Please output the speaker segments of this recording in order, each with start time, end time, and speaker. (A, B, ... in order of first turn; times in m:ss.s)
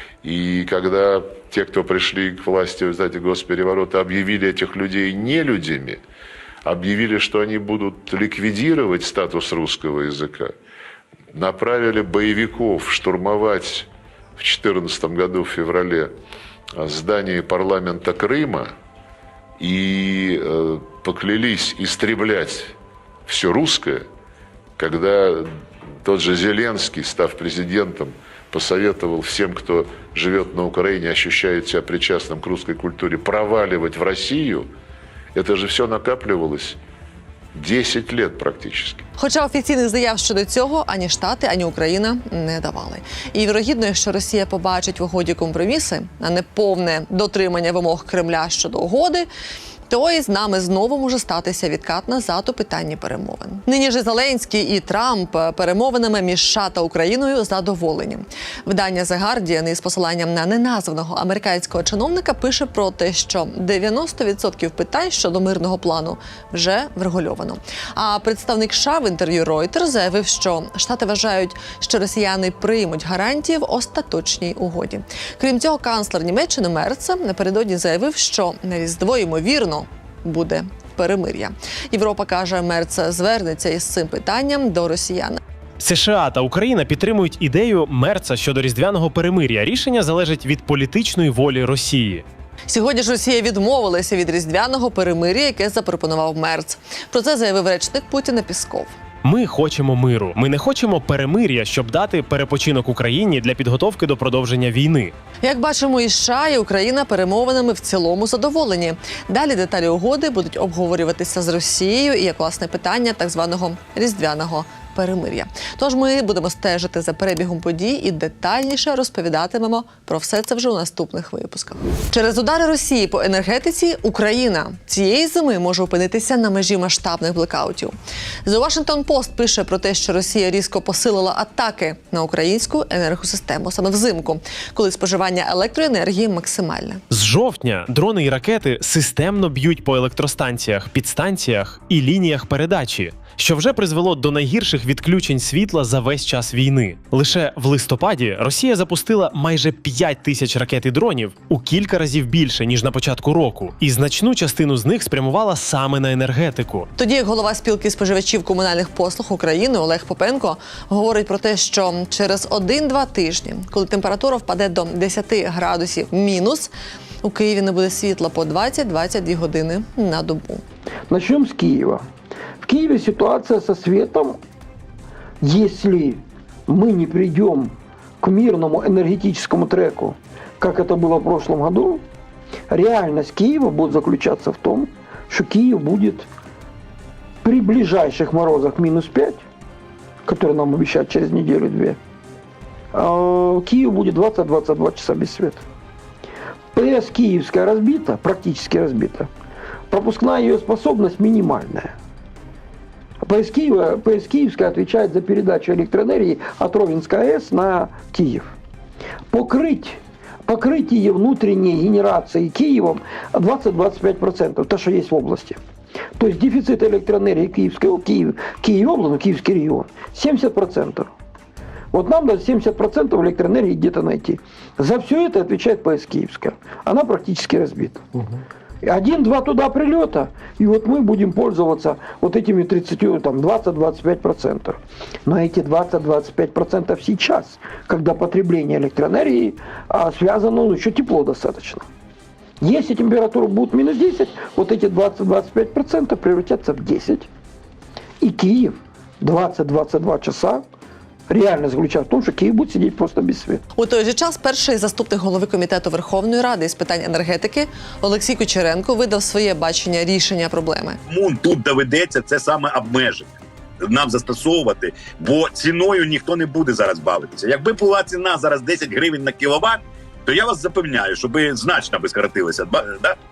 0:00.2-0:06.0 A
0:06.6-0:10.5 A
0:11.3-0:13.9 A
0:14.4-0:16.1 A
0:16.8-0:18.7 A
0:19.6-0:22.7 A
0:23.3-0:24.0 A
0:24.8-0:25.5 A
0:26.0-0:34.7 A
0:35.3-0:36.8 A
0:37.5-0:39.0 A
0:39.2-0:49.3 B
0:49.9-1:25.4 B
1:25.8-1:32.2 C
1:32.7-1:38.9 B
1:39.2-1:45.1 C
1:45.4-2:07.9 B
2:08.4-2:17.0 B
2:17.1-2:36.9 C
2:37.0-2:46.7 B
2:47.2-2:50.6 B
2:51.1-2:52.0 D
2:52.6-2:54.4 D
2:55.4-3:02.0 D
3:02.7-3:06.3 D
3:07.4-3:09.4 D
3:10.2-3:12.0 D
3:12.9-3:15.6 D
3:16.7-3:19.3 D
3:19.9-3:21.9 D
3:23.2-3:28.5 D
3:29.3-3:35.6 D
3:36.2-3:41.1 D
3:41.9-3:48.0 D
3:48.8-4:01.9 D
4:02.6-4:07.3 D
4:08.2-4:10.6 D
4:11.3-4:13.6 D
4:13.8-4:21.0 B
4:21.1-4:23.3 E
4:23.8-4:33.2 E